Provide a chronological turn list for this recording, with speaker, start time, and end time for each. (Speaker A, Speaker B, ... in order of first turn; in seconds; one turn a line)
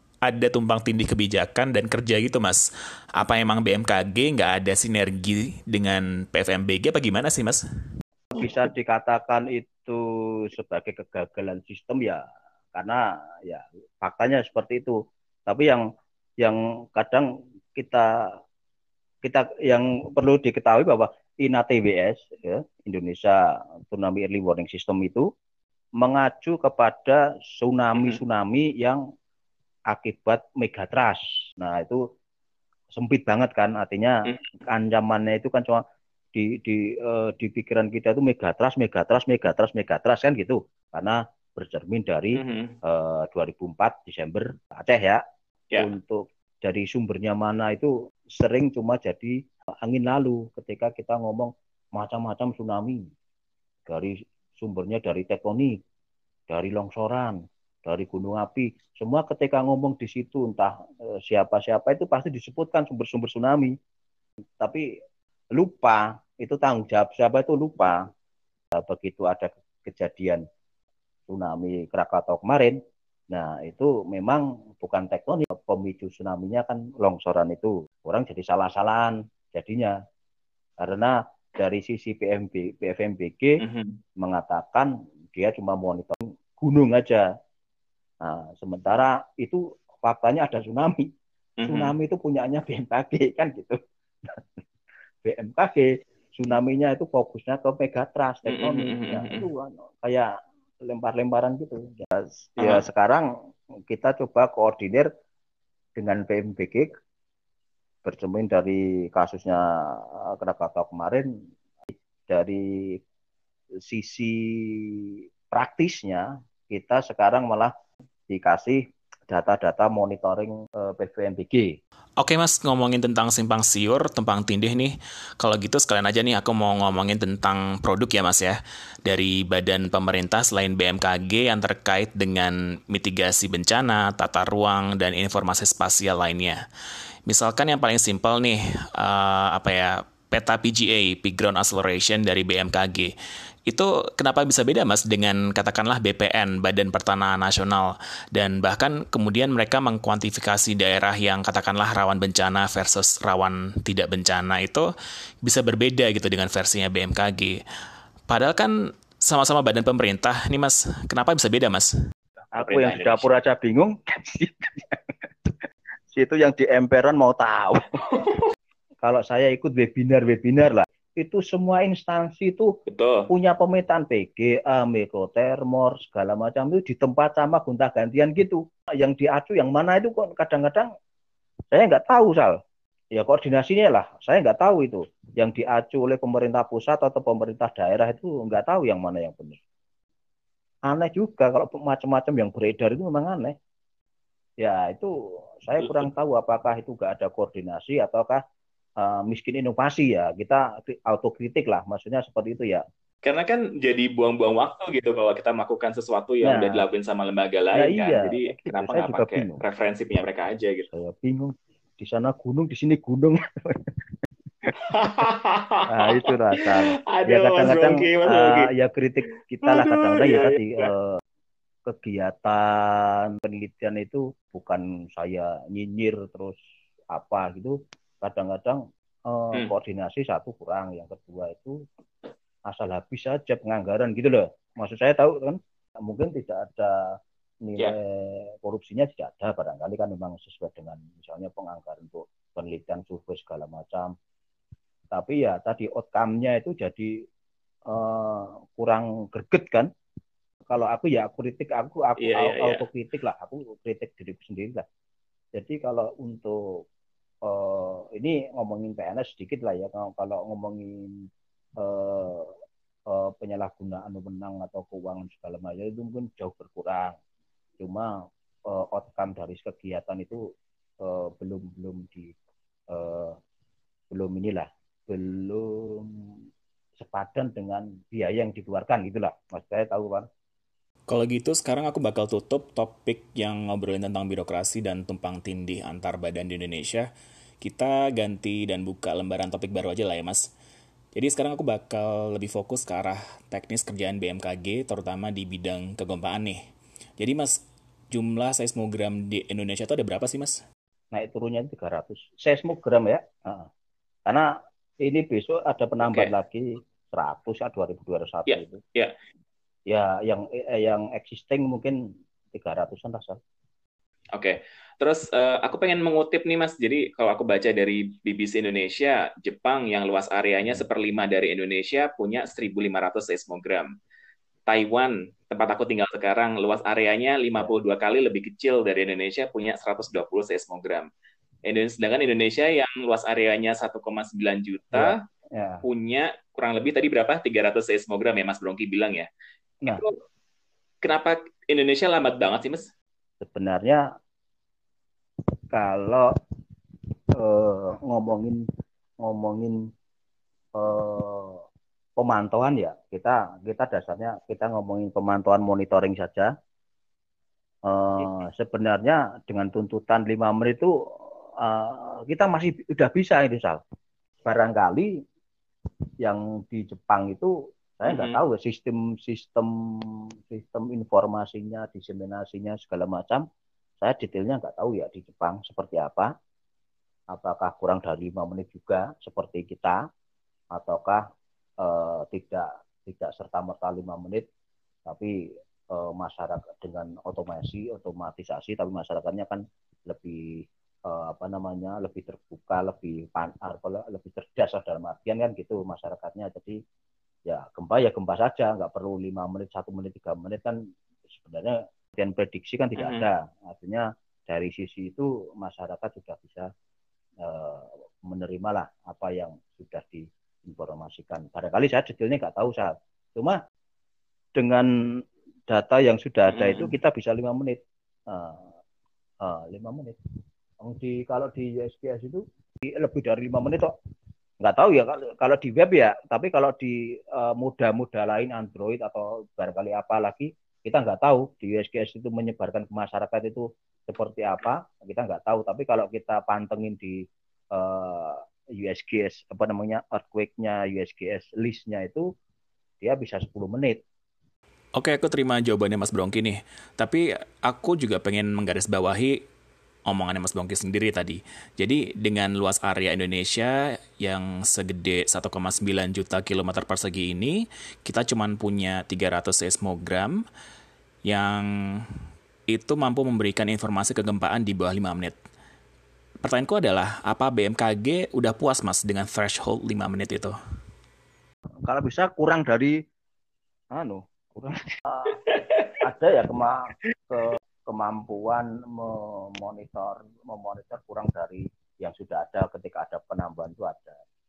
Speaker A: 0.2-2.6
Speaker A: 3.1-7.6
Speaker B: 8.3-12.2
Speaker B: 12.7-15.8
Speaker B: 16.4-18.1
Speaker B: 19.2-23.4
Speaker B: 23.9-25.3
Speaker B: 26.0-29.0
Speaker B: 29.9-32.0
Speaker B: 32.9-35.8
Speaker B: 36.3-45.2
Speaker C: 42.3-42.8
Speaker B: 45.8-53.1
Speaker B: 53.9-55.8
Speaker B: 56.5-63.7
Speaker B: 64.6-64.8
Speaker B: 65.5-68.1
Speaker B: 68.7-70.4
Speaker B: 71.3-72.8
Speaker B: 73.3-80.0
Speaker B: 80.8-83.6
Speaker C: 83.6-84.0
Speaker B: 84.2-87.3
Speaker B: 88.2-91.1
Speaker C: 91.6-91.9
Speaker B: 91.6-93.8
Speaker B: 95.2-100.3
Speaker C: 98.5-99.5
Speaker B: 100.8-103.3
Speaker C: 102.6-102.8
Speaker B: 103.9-105.1
Speaker B: 106.0-106.9
Speaker B: 108.0-111.3
Speaker B: 112.3-113.0
Speaker B: 113.8-117.7
Speaker B: 118.3-121.7
Speaker A: 122.2-136.6
Speaker A: 137.3-143.1
Speaker A: 143.7-154.9
Speaker A: 155.4-157.6
Speaker A: 158.3-161.9
Speaker C: 162.4-163.4
Speaker B: 162.6-167.8
Speaker B: 169.0-172.7
Speaker C: 172.9-173.3
Speaker B: 173.3-180.9
Speaker B: 181.7-182.6
Speaker B: 183.1-189.6
Speaker B: 190.9-193.6
Speaker B: 194.6-198.4
Speaker C: 195.8-196.1
Speaker B: 199.0-202.8
Speaker C: 203.2-210.9
Speaker B: 206.4-206.9
Speaker B: 207.7-209.6
Speaker B: 210.9-213.9
Speaker B: 214.7-215.2
Speaker C: 214.8-218.7
Speaker B: 215.9-221.1
Speaker C: 219.6-220.9
Speaker B: 221.9-226.6
Speaker B: 227.1-231.8
Speaker B: 232.7-244.1
Speaker B: 245.1-247.1
Speaker B: 247.9-249.9
Speaker B: 250.7-254.8
Speaker C: 252.2-252.8
Speaker B: 255.5-256.8
Speaker B: 257.4-261.3
Speaker B: 261.8-262.5
Speaker B: 263.1-267.2
Speaker B: 267.8-268.1
Speaker B: 268.7-270.4
Speaker B: 271.0-272.3
Speaker B: 272.9-273.4
Speaker B: 274.1-276.1
Speaker B: 277.0-280.3
Speaker A: 281.1-290.5
Speaker A: 291.1-296.6
Speaker A: 297.2-300.6
Speaker B: 301.1-303.7
Speaker B: 305.0-308.8
Speaker C: 306.0-306.3
Speaker C: 308.5-309.1
Speaker B: 309.9-312.0
Speaker B: 312.5-313.4
Speaker C: 314.3-323.9
Speaker C: 324.7-331.1
Speaker C: 331.6-335.2
Speaker B: 334.9-335.8
Speaker C: 335.8-339.3
Speaker C: 339.9-340.1
Speaker C: 341.0-342.9
Speaker B: 343.4-344.0
Speaker B: 345.7-346.3
Speaker B: 347.4-348.6
Speaker B: 349.2-349.8
Speaker B: 350.8-351.6
Speaker B: 352.2-356.5
Speaker B: 357.8-360.9
Speaker B: 361.6-363.8
Speaker B: 364.4-365.2
Speaker B: 366.2-373.4
Speaker C: 368.1-368.4
Speaker B: 374.0-376.3
Speaker B: 377.3-380.0
Speaker B: 380.7-381.2
Speaker B: 381.8-384.4
Speaker B: 385.1-385.3
Speaker B: 385.9-396.8
Speaker B: 397.5-400.8
Speaker B: 401.3-406.7
Speaker C: 402.9-403.3
Speaker B: 407.4-413.6
Speaker B: 414.5-418.7
Speaker C: 416.5-416.9
Speaker B: 419.4-420.2
Speaker B: 420.8-422.4
Speaker B: 422.9-423.9
Speaker B: 424.6-442.3
Speaker B: 443.0-444.0
Speaker A: 444.9-449.4
Speaker A: 450.1-460.4
Speaker A: 461.2-462.0
Speaker A: 462.7-465.4
Speaker A: 466.4-470.5
Speaker B: 471.9-473.0
Speaker B: 473.9-484.2